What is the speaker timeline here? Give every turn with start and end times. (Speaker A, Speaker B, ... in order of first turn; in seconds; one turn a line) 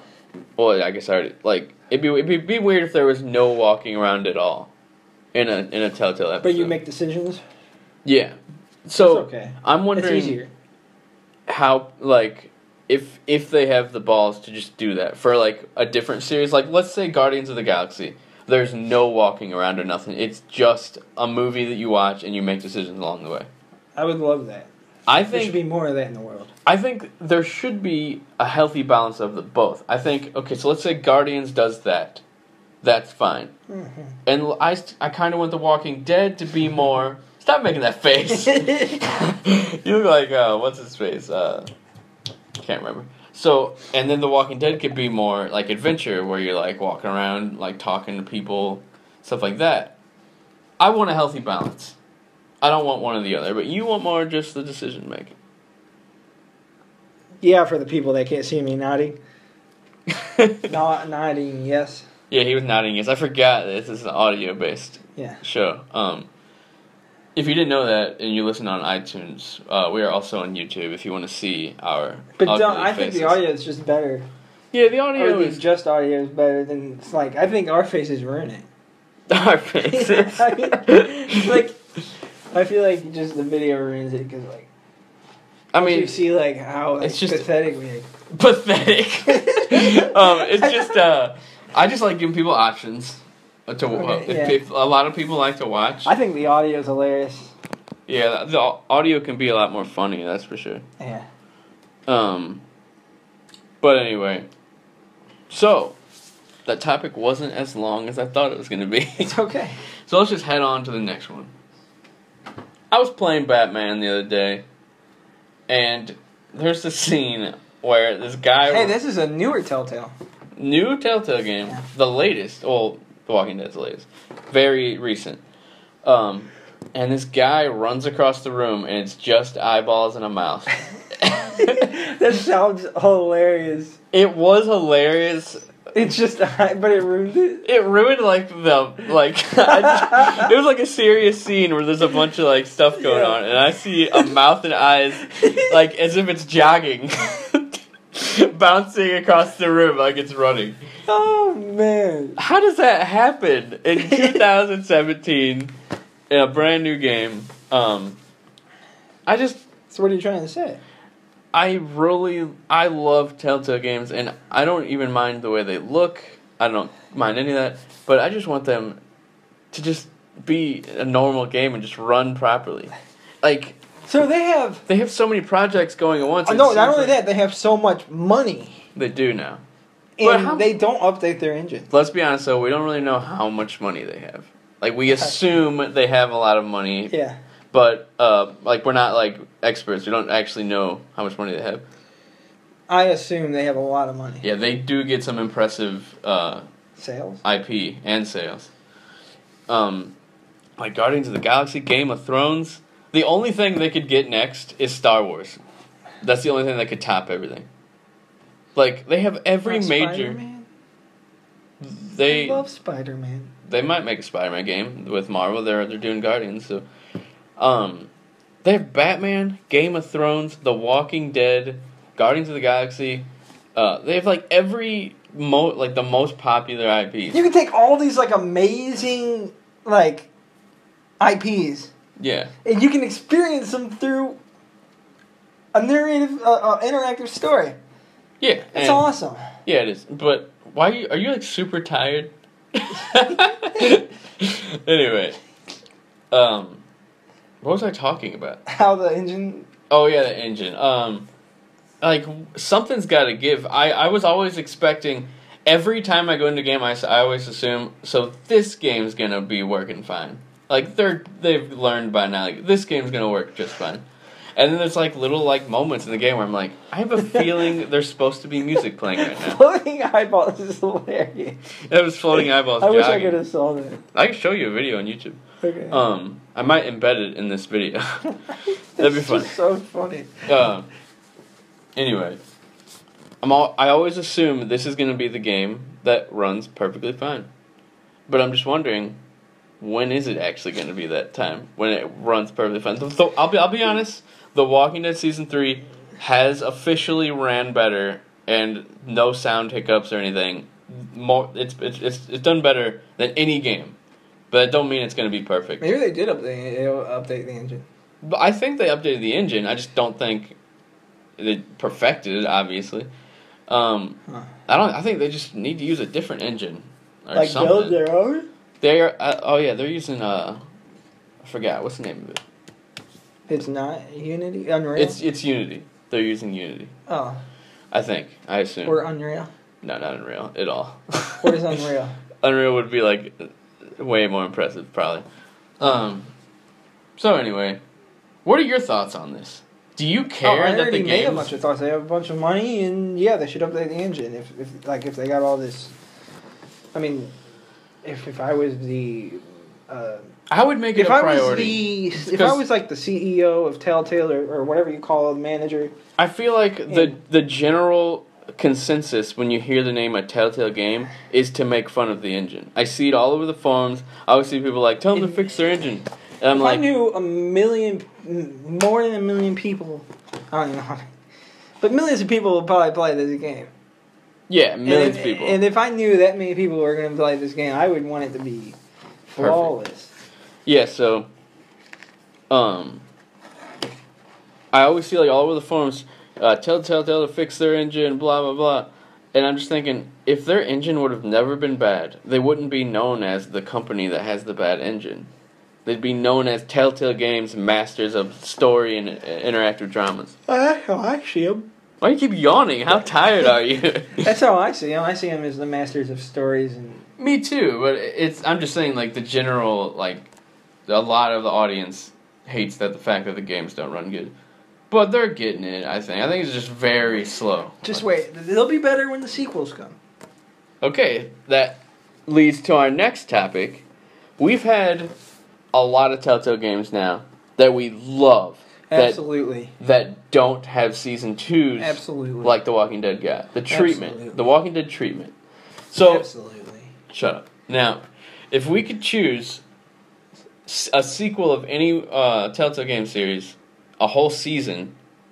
Speaker A: 0.6-4.7
Speaker A: 5.3-6.8
Speaker B: 6.4-7.4
Speaker A: 8.1-10.4
Speaker B: 9.0-10.5
Speaker A: 11.5-23.5
Speaker B: 24.0-24.7
Speaker A: 25.1-25.6
Speaker B: 25.3-26.5
Speaker A: 26.7-32.2
Speaker A: 32.8-33.5
Speaker B: 33.7-34.1
Speaker A: 34.3-41.7
Speaker B: 38.5-39.0
Speaker A: 42.6-50.0
Speaker A: 50.8-52.0
Speaker A: 52.6-55.4
Speaker B: 57.4-59.2
Speaker A: 60.1-60.7
Speaker B: 60.7-62.1
Speaker A: 62.3-66.3
Speaker A: 67.3-73.4
Speaker B: 72.4-74.3
Speaker A: 74.7-75.6
Speaker B: 75.2-78.7
Speaker A: 79.3-81.7
Speaker B: 79.9-81.8
Speaker B: 82.5-84.7
Speaker A: 85.7-86.3
Speaker B: 85.8-88.1
Speaker A: 87.0-87.5
Speaker A: 88.3-96.1
Speaker B: 89.3-91.0
Speaker B: 93.9-94.6
Speaker B: 96.0-97.5
Speaker A: 98.1-100.8
Speaker B: 101.0-101.2
Speaker A: 102.1-102.6
Speaker A: 103.8-104.5
Speaker A: 105.5-106.0
Speaker A: 106.7-109.3
Speaker B: 109.2-109.8
Speaker A: 110.1-111.5
Speaker A: 112.9-114.6
Speaker A: 115.7-119.0
Speaker B: 118.7-120.1
Speaker A: 120.6-125.4
Speaker A: 126.0-131.9
Speaker B: 131.5-134.0
Speaker A: 134.1-135.7
Speaker B: 135.9-137.6
Speaker A: 137.6-150.8
Speaker B: 139.8-140.3
Speaker B: 142.9-143.4
Speaker B: 145.2-145.7
Speaker B: 151.1-152.4
Speaker A: 152.4-155.7
Speaker A: 156.3-158.2
Speaker A: 159.3-159.6
Speaker B: 159.9-160.8
Speaker A: 161.5-169.0
Speaker A: 169.7-173.8
Speaker B: 174.1-174.8
Speaker A: 174.9-177.2
Speaker B: 176.4-178.8
Speaker A: 178.9-179.6
Speaker B: 180.2-181.9
Speaker A: 180.2-180.7
Speaker A: 181.9-187.1
Speaker B: 185.1-185.6
Speaker B: 187.1-187.4
Speaker A: 187.7-191.8
Speaker B: 192.9-194.5
Speaker A: 194.4-196.7
Speaker B: 197.0-197.4
Speaker A: 197.4-198.7
Speaker A: 199.7-200.1
Speaker A: 200.8-205.6
Speaker A: 206.2-207.7
Speaker A: 208.8-210.4
Speaker B: 209.7-210.7
Speaker A: 211.8-212.6
Speaker B: 212.3-213.5
Speaker A: 213.7-216.8
Speaker A: 217.6-218.1
Speaker A: 218.6-227.4
Speaker B: 227.3-230.3
Speaker B: 231.2-231.9
Speaker A: 232.2-232.5
Speaker B: 232.6-234.4
Speaker B: 235.7-237.8
Speaker A: 238.4-239.1
Speaker B: 238.7-239.4
Speaker A: 239.7-245.4
Speaker A: 246.3-246.8
Speaker A: 247.6-248.6
Speaker B: 248.7-249.7
Speaker A: 249.9-251.3
Speaker A: 252.0-264.0
Speaker A: 264.6-269.6
Speaker B: 269.2-271.6
Speaker A: 271.9-273.4
Speaker B: 272.3-274.0
Speaker A: 274.1-278.4
Speaker B: 275.6-276.0
Speaker B: 279.0-280.5
Speaker A: 279.0-279.6
Speaker A: 280.5-280.9
Speaker A: 282.0-282.4
Speaker A: 283.4-287.5
Speaker A: 288.3-289.2
Speaker A: 289.8-304.0
Speaker A: 304.5-305.9
Speaker B: 305.8-307.9
Speaker A: 308.2-310.6
Speaker A: 311.4-313.1
Speaker A: 313.7-318.0
Speaker B: 317.4-318.5
Speaker A: 318.8-320.6
Speaker A: 321.4-322.4
Speaker B: 323.5-325.2
Speaker A: 325.0-326.9
Speaker B: 327.1-327.4
Speaker A: 327.9-329.0
Speaker B: 328.9-329.5
Speaker A: 329.8-331.7
Speaker B: 331.4-332.1
Speaker A: 332.4-335.2
Speaker A: 335.8-336.3
Speaker A: 337.2-337.8
Speaker A: 338.4-341.6
Speaker B: 340.4-345.9
Speaker B: 346.9-347.3
Speaker B: 348.0-350.2
Speaker A: 350.5-352.6
Speaker B: 350.9-355.9
Speaker A: 356.2-366.8
Speaker B: 356.9-357.1
Speaker B: 365.1-365.4
Speaker B: 366.5-371.1
Speaker B: 371.8-373.7
Speaker A: 374.5-375.6
Speaker B: 374.9-378.8
Speaker B: 379.3-380.1
Speaker A: 379.4-379.7
Speaker A: 380.7-381.3
Speaker A: 382.5-383.0
Speaker A: 384.7-395.3
Speaker A: 395.9-400.3
Speaker B: 400.5-401.7
Speaker A: 402.0-404.3
Speaker B: 404.2-407.1
Speaker A: 407.2-410.3
Speaker A: 410.9-414.3
Speaker A: 414.9-418.1
Speaker B: 417.9-420.0
Speaker A: 420.8-423.9
Speaker A: 424.4-425.1
Speaker A: 425.7-429.2
Speaker B: 428.9-429.7
Speaker A: 429.8-435.3
Speaker B: 431.8-432.6
Speaker B: 433.7-434.4
Speaker A: 435.9-436.3
Speaker B: 436.0-436.9
Speaker A: 437.1-439.6
Speaker A: 440.7-444.9